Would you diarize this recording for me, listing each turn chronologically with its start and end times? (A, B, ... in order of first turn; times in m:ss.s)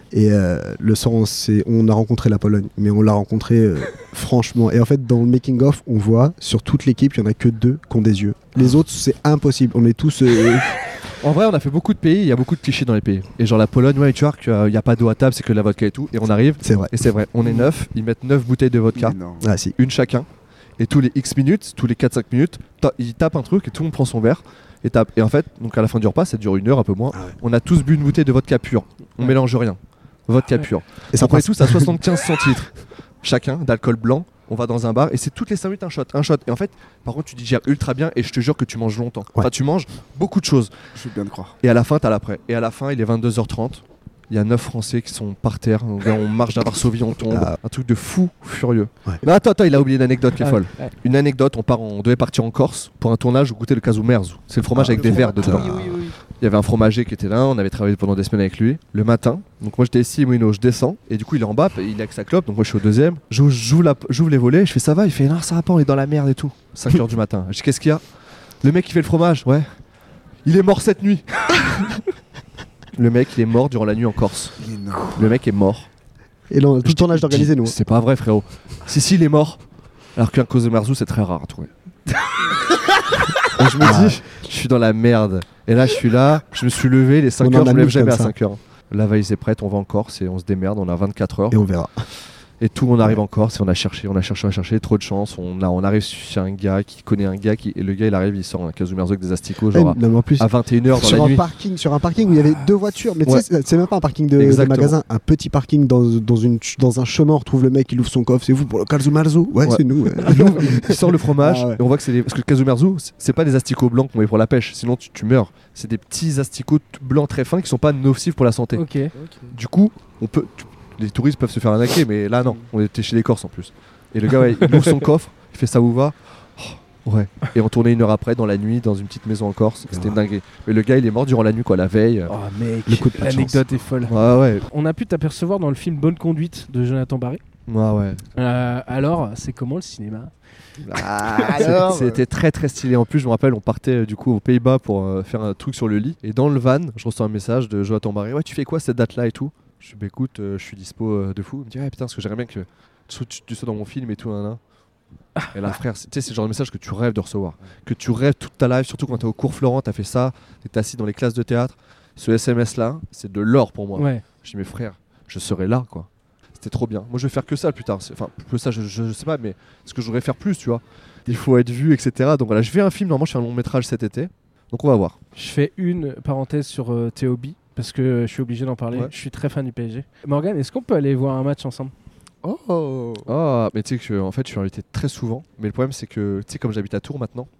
0:00.1-0:10.9 A
0:11.2-0:19.2 B
0:16.6-0:17.0 A
0:18.9-0:19.5 C
0:19.4-0:19.7 A
0:19.8-0:20.3 B
0:20.8-0:40.7 B
0:31.1-0:32.2 A
0:40.9-0:41.6 C
0:41.6-0:55.8 B
0:47.2-0:47.6 A
0:50.4-0:50.9 D
0:54.7-0:56.0 A
0:55.0-0:56.1 D
0:56.4-1:08.0 B
1:08.6-1:09.7 B
1:10.4-1:12.0 B
1:13.0-1:14.5 B
1:14.6-1:15.3 C
1:15.1-1:15.9 B
1:16.5-1:17.7 A
1:16.8-1:19.6 B
1:20.2-1:21.7 B
1:23.4-1:31.6 B
1:23.7-1:24.2 A
1:27.4-1:28.3 A
1:31.5-1:31.9 A
1:32.6-1:41.4 B
1:39.7-1:51.8 A
1:44.4-1:45.0 B
1:49.6-1:58.8 B
1:58.7-1:59.1 D
1:59.2-1:59.5 C
1:59.5-2:12.3 B
2:04.6-2:04.9 D
2:09.9-2:10.1 A
2:12.3-2:17.4 D
2:12.8-2:13.6 A
2:14.0-2:14.6 B
2:17.7-2:18.2 B
2:18.4-2:20.3 D
2:20.8-2:34.6 B
2:20.9-2:22.2 C
2:35.4-2:35.8 D
2:35.5-2:55.2 B
2:43.9-2:44.2 D
2:55.3-3:01.9 D
3:02.4-3:03.3 C
3:03.2-3:07.5 B